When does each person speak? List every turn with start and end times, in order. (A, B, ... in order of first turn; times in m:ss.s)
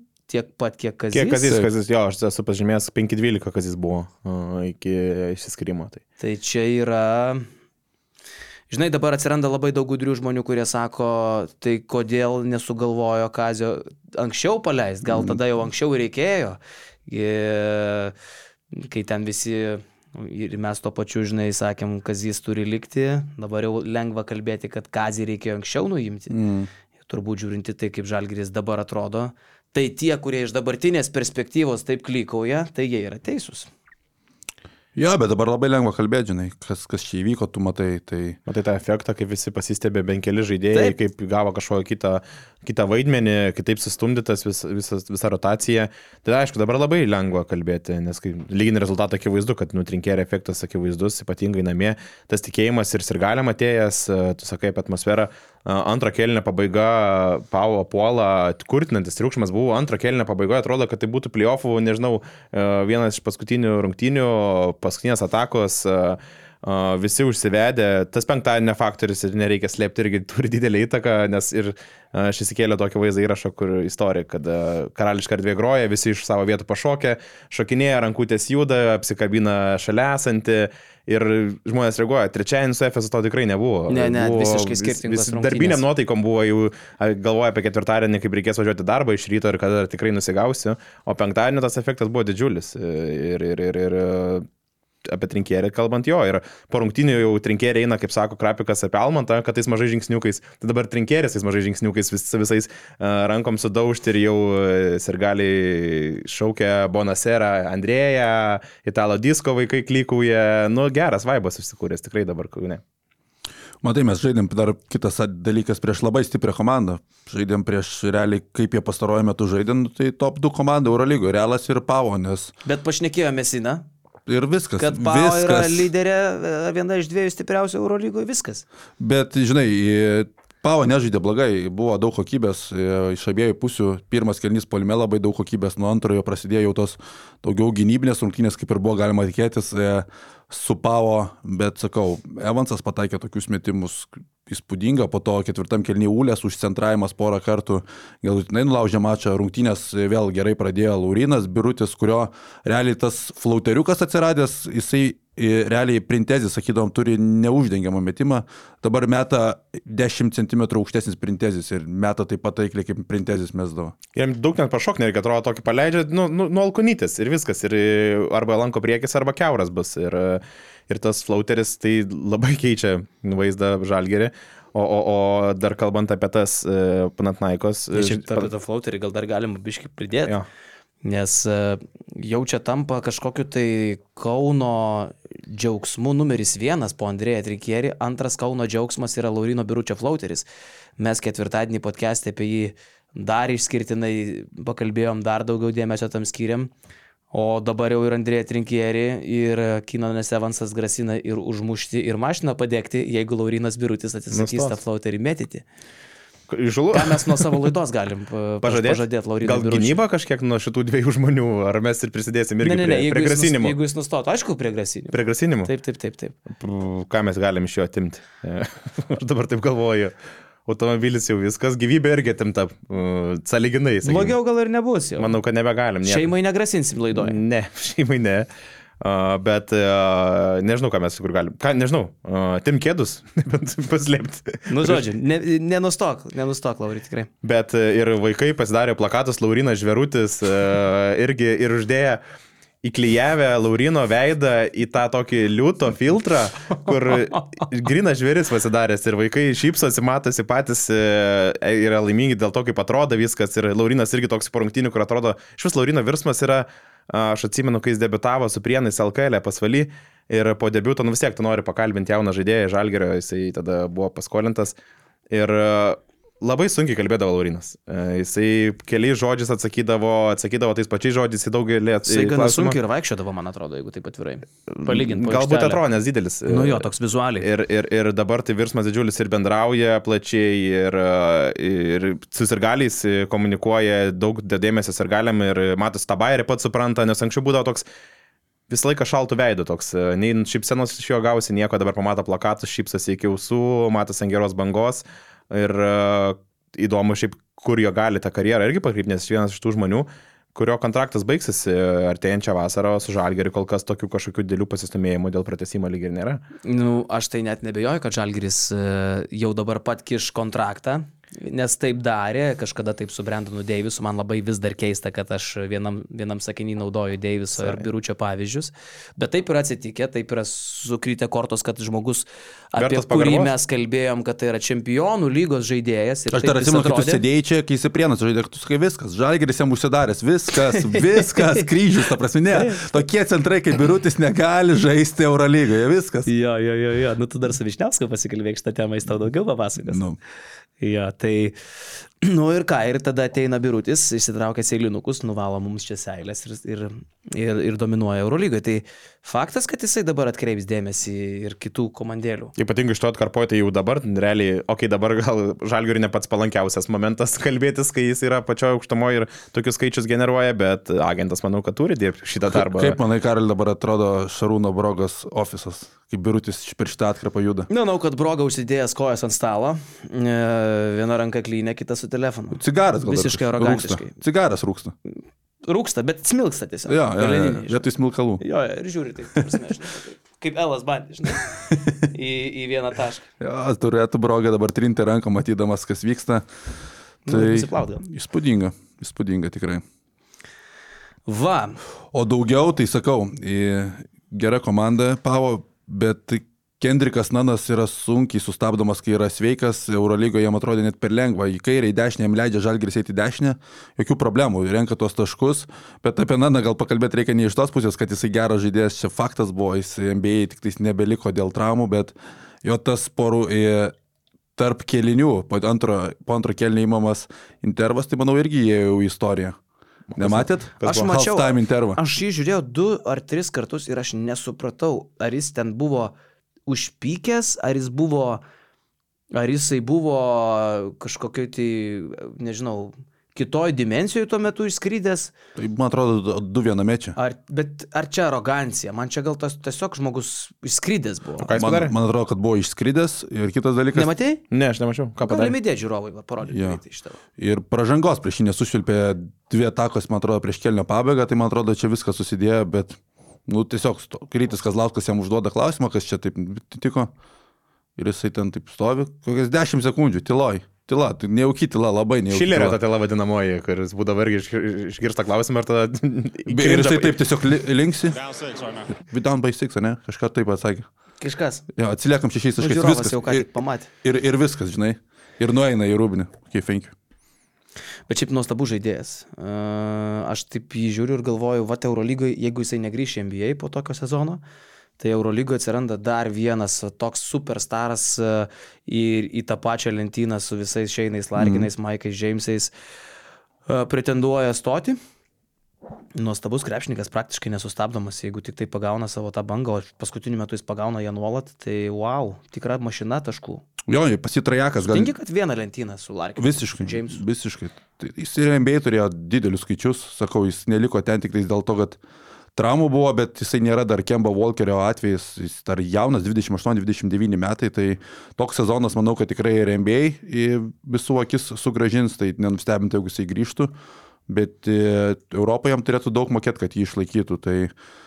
0:00.3-0:01.5 A
0:01.1-0:06.0 B
0:06.2-0:07.5 A
0:08.7-0:18.1 A
0:18.7-0:26.4 A
0:26.3-0:26.7 C
0:27.1-0:33.7 A
0:34.9-0:38.4 C
0:38.5-1:34.5 B
1:23.9-1:25.8 A
1:35.0-1:52.8 B
1:53.8-2:02.5 C
2:02.6-2:03.8 A
2:04.3-2:05.9 C
2:04.8-2:08.6 A
2:09.0-2:43.9 C
2:44.1-2:58.5 B
2:57.9-3:00.3 A
3:01.0-3:10.4 A
3:11.0-3:16.7 A
3:17.3-3:25.6 A
3:24.3-3:24.8 B
3:26.5-3:27.7 B
3:26.9-3:30.0 A
3:28.6-3:33.8 B
3:32.6-3:36.4 A
3:35.1-3:35.7 B
3:36.6-3:40.1 B
3:40.6-3:44.4 B
3:44.0-3:45.3 A
3:45.2-3:46.3 B
3:46.0-3:47.4 A
3:47.2-3:48.5 B
3:49.0-3:55.0 B
3:54.7-3:57.3 A
3:57.4-4:02.2 B
4:02.8-4:24.8 B
4:25.3-4:32.8 B
4:32.0-4:35.8 A
4:34.7-4:36.9 B
4:36.5-4:37.4 A
4:37.4-4:47.8 B
4:48.7-5:06.4 B
5:06.6-5:27.2 A
5:22.8-5:23.5 B
5:26.3-5:36.3 C
5:30.7-5:31.6 A
5:32.5-5:32.8 A
5:36.3-5:40.0 A
5:39.8-5:40.2 C
5:40.8-5:41.6 A
5:42.2-5:52.5 A
5:52.6-6:03.0 B
6:02.5-6:07.7 C
6:07.7-6:14.1 A
6:12.5-6:14.9 C
6:15.6-6:17.8 A
6:16.9-6:18.4 C
6:18.4-6:23.2 A
6:23.4-6:26.4 C
6:27.2-6:28.0 A
6:27.3-6:29.8 C
6:31.3-6:31.8 A
6:32.1-6:53.9 C
6:54.6-6:59.6 C
7:00.1-7:01.1 B
7:00.2-7:02.0 C
7:00.8-7:06.1 A
7:06.7-7:08.4 A
7:09.3-7:15.3 A
7:15.6-7:17.2 C
7:17.2-7:21.6 A
7:21.4-7:21.9 B
7:21.6-7:24.1 C
7:23.9-7:24.4 A
7:24.5-7:25.5 B
7:25.2-7:27.2 A
7:26.5-7:26.8 C
7:27.4-7:37.1 C
7:38.0-7:42.8 C
7:42.3-7:47.2 B
7:46.5-7:50.9 C
7:51.2-7:51.6 A
7:51.7-7:53.4 C
7:52.6-7:53.9 A
7:54.0-7:56.9 C
7:58.1-8:04.4 A
8:05.0-8:12.7 A
8:11.4-8:11.7 C
8:13.7-8:15.0 A
8:16.1-8:23.6 A
8:23.9-8:25.1 C
8:24.8-8:27.2 A
8:26.4-8:32.0 C
8:32.5-8:43.7 C
8:44.3-8:47.7 C